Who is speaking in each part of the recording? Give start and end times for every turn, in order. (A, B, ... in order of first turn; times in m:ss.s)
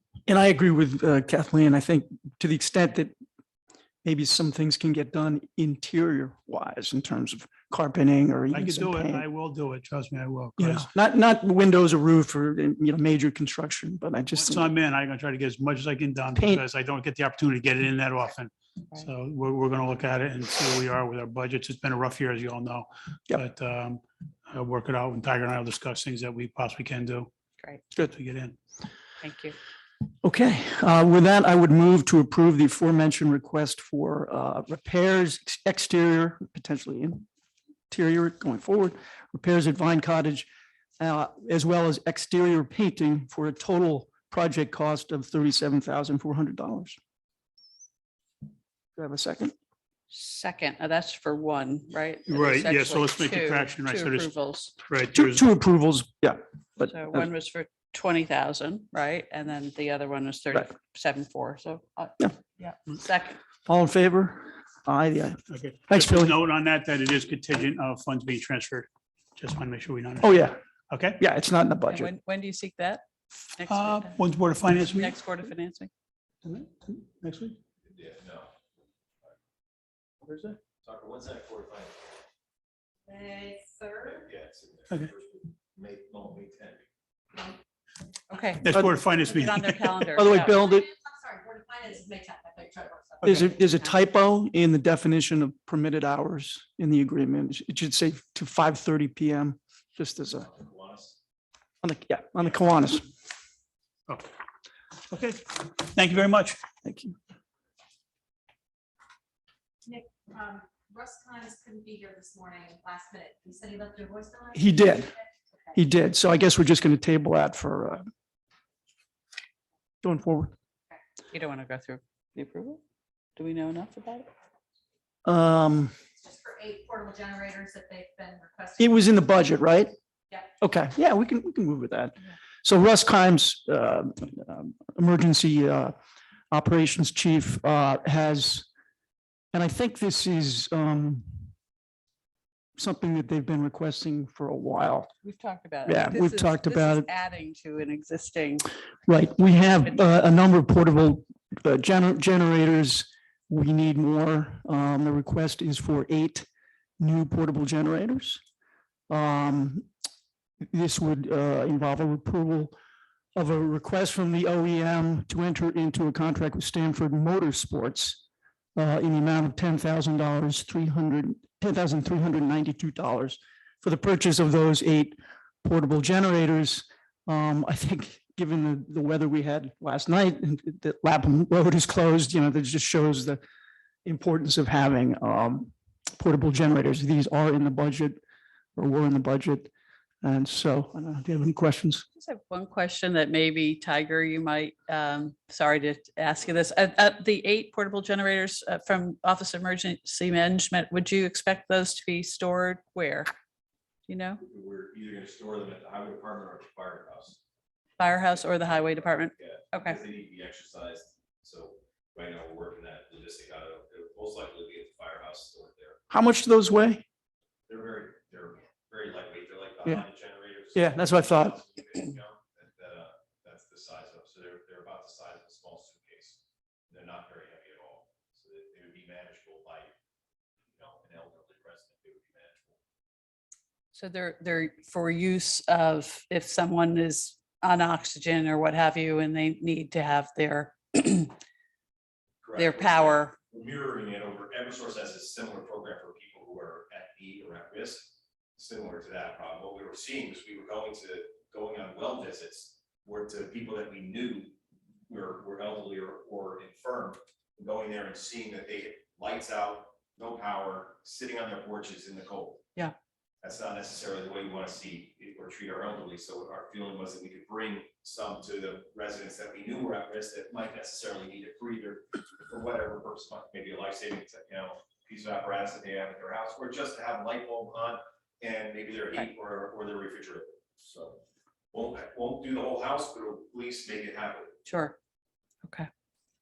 0:00.3-0:03.2 A
0:04.0-0:09.2 A
0:08.5-0:10.9 B
0:10.6-0:14.7 A
0:14.4-0:27.3 B
0:16.3-0:16.6 A
0:28.0-0:28.6 B
0:29.2-0:29.6 C
0:30.2-0:37.2 A
0:37.9-0:40.5 A
0:41.0-0:47.0 A
0:49.0-0:49.5 A
0:50.1-0:54.7 C
0:52.3-0:55.4 B
0:55.1-0:57.3 A
0:56.8-1:03.4 C
1:03.7-1:06.3 A
1:05.5-1:11.2 B
1:10.2-1:10.6 A
1:11.2-1:12.1 A
1:11.9-1:13.0 C
1:13.6-1:14.2 C
1:13.7-1:15.2 B
1:14.8-1:15.9 C
1:16.4-1:17.6 B
1:17.8-1:18.5 D
1:20.3-1:20.6 B
1:20.8-1:22.1 D
1:23.0-1:24.3 E
1:24.0-1:26.9 D
1:28.3-1:30.6 C
1:28.6-1:30.1 B
1:30.2-1:30.9 A
1:30.3-1:33.9 E
1:33.2-1:40.5 A
1:40.3-1:41.2 D
1:41.8-1:43.1 A
1:45.1-1:46.6 B
1:46.8-1:47.2 A
1:49.8-1:55.7 E
1:54.5-1:55.1 A
1:55.7-1:58.0 A
2:00.0-2:00.5 A
2:01.3-2:02.8 C
2:03.4-2:04.3 C
2:05.2-2:05.9 A
2:06.2-2:09.0 E
2:08.8-2:09.9 A
2:10.6-2:15.9 A
2:16.5-2:18.7 A
2:19.5-2:21.5 A
2:22.8-2:25.1 A
2:25.2-2:28.7 C
2:25.8-2:27.1 A
2:29.1-2:36.4 A
2:37.0-2:38.4 A
2:39.1-2:39.9 A
2:40.7-2:42.7 A
2:43.4-2:48.2 A
2:48.8-3:03.4 A
3:04.0-3:08.2 A
3:08.8-3:09.7 A
3:10.2-3:12.0 A
3:12.2-3:23.3 C
3:24.1-3:24.4 C
3:24.4-3:27.4 D
3:28.0-3:30.0 C
3:28.1-3:36.0 D
3:36.1-3:37.0 A
3:37.7-3:46.4 D
3:40.7-3:41.6 A
3:46.9-3:49.9 D
3:50.7-3:52.8 D
3:53.9-4:01.3 C
4:02.4-4:14.5 D
4:02.6-4:03.4 C
4:15.1-4:22.6 D
4:23.4-4:41.2 D
4:41.7-4:44.6 D
4:44.7-4:45.0 C
4:45.6-4:45.9 C